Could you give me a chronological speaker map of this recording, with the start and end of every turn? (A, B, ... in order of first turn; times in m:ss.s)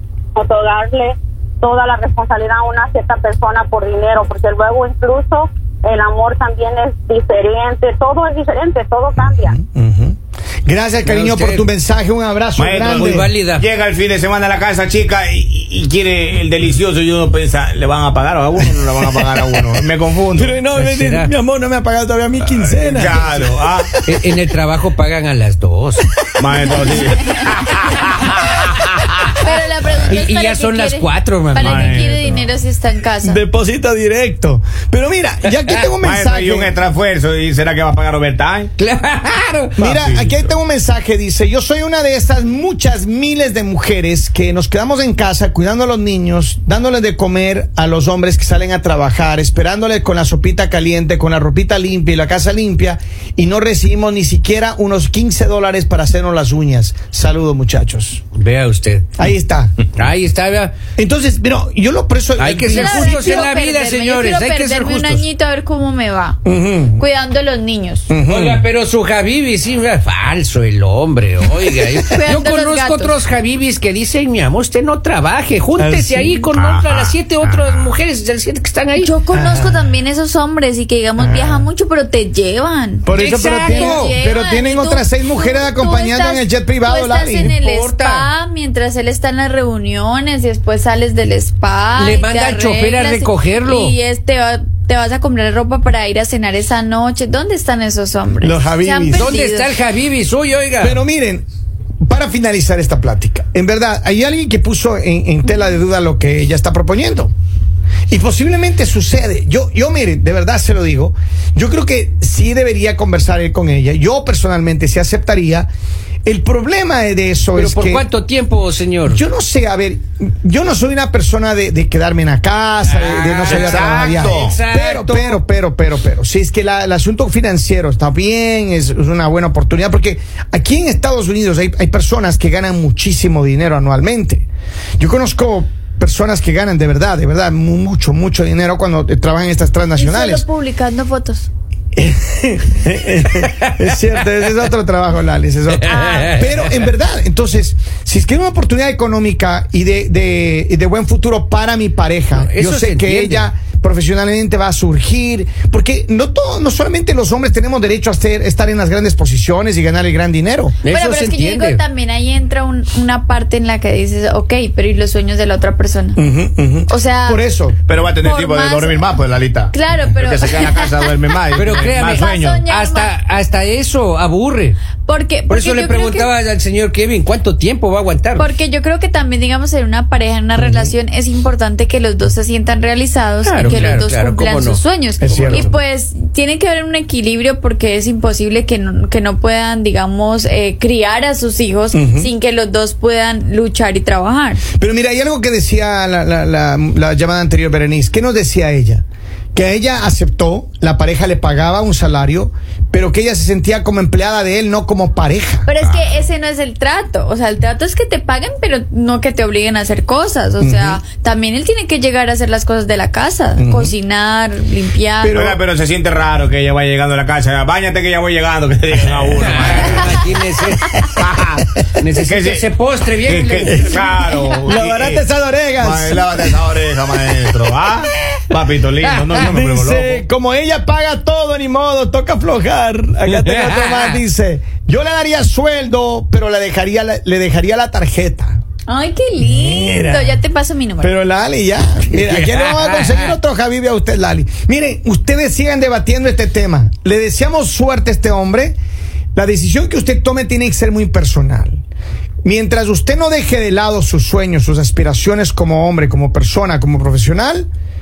0:00.4-0:09.6 A
0:09.2-0:13.3 B
0:11.0-0:11.7 C
0:12.6-0:20.6 D
0:12.8-0:13.7 C
0:18.6-0:19.8 B
0:20.3-0:24.0 B
0:20.8-0:21.3 C
0:22.4-0:23.9 D
0:24.1-0:26.1 C
0:26.4-0:28.9 D
0:26.6-0:26.9 B
0:29.4-0:33.4 E
0:30.1-0:32.2 C
0:31.6-0:32.4 D
0:33.2-0:36.7 B
0:35.5-0:35.8 C
0:36.0-0:38.7 D
0:38.8-0:39.8 C
0:39.8-0:58.2 B
0:39.8-0:40.5 D
0:58.4-0:59.1 C
0:59.2-0:59.7 B
1:00.0-1:00.8 C
1:01.0-1:03.5 B
1:02.4-1:05.3 C
1:02.7-1:06.4 E
1:06.4-1:07.0 B
1:07.0-1:08.1 E
1:08.1-1:08.7 B
1:08.3-1:19.1 C
1:12.1-1:13.2 E
1:15.8-1:16.4 B
1:16.6-1:18.0 D
1:19.0-1:39.8 E
1:19.3-1:19.9 B
1:21.2-1:21.7 B
1:23.0-1:27.6 B
1:23.1-1:24.2 C
1:27.5-1:28.3 C
1:32.0-1:34.0 C
1:38.4-1:39.3 B
1:39.1-1:41.0 C
1:40.8-1:41.4 B
1:42.0-1:47.3 B
1:48.1-1:55.7 B
1:56.2-1:58.1 B
1:57.5-1:59.2 C
1:59.1-2:14.5 B
2:02.8-2:05.4 C
2:03.3-2:04.6 D
2:15.0-2:20.4 B
2:20.0-2:21.5 E
2:22.0-2:40.8 B
2:23.4-2:23.7 C
2:25.7-2:26.8 C
2:25.9-2:26.4 E
2:32.3-2:33.5 C
2:40.8-2:41.8 C
2:40.9-2:46.2 E
2:46.2-2:47.8 B
2:46.9-2:47.4 E
2:47.9-2:52.7 D
2:48.2-2:49.2 E
2:49.7-2:53.1 E
2:51.5-2:54.8 C
2:55.1-2:56.3 E
2:55.5-2:58.5 C
2:58.4-3:14.6 E
3:03.4-3:05.6 C
3:05.2-3:05.8 B
3:11.9-3:12.3 B
3:14.8-3:19.0 B
3:19.5-3:25.7 B
3:25.7-3:35.3 E
3:25.8-3:26.3 D
3:30.6-3:31.0 B
3:33.6-3:34.0 B
3:35.2-3:35.6 B
3:35.3-3:40.3 D
3:39.3-3:41.0 C
3:40.9-3:42.7 D
3:42.0-3:44.1 C
3:43.2-3:45.2 D
3:43.7-3:43.9 B
3:44.6-3:46.6 B
3:45.8-3:50.2 D
3:49.0-3:49.5 C
3:49.4-3:58.6 B
3:53.3-3:54.2 C
3:58.9-4:01.1 E
3:59.4-4:00.4 B
4:01.0-4:08.8 B
4:02.2-4:03.4 C
4:09.4-4:11.8 B
4:12.4-4:17.7 B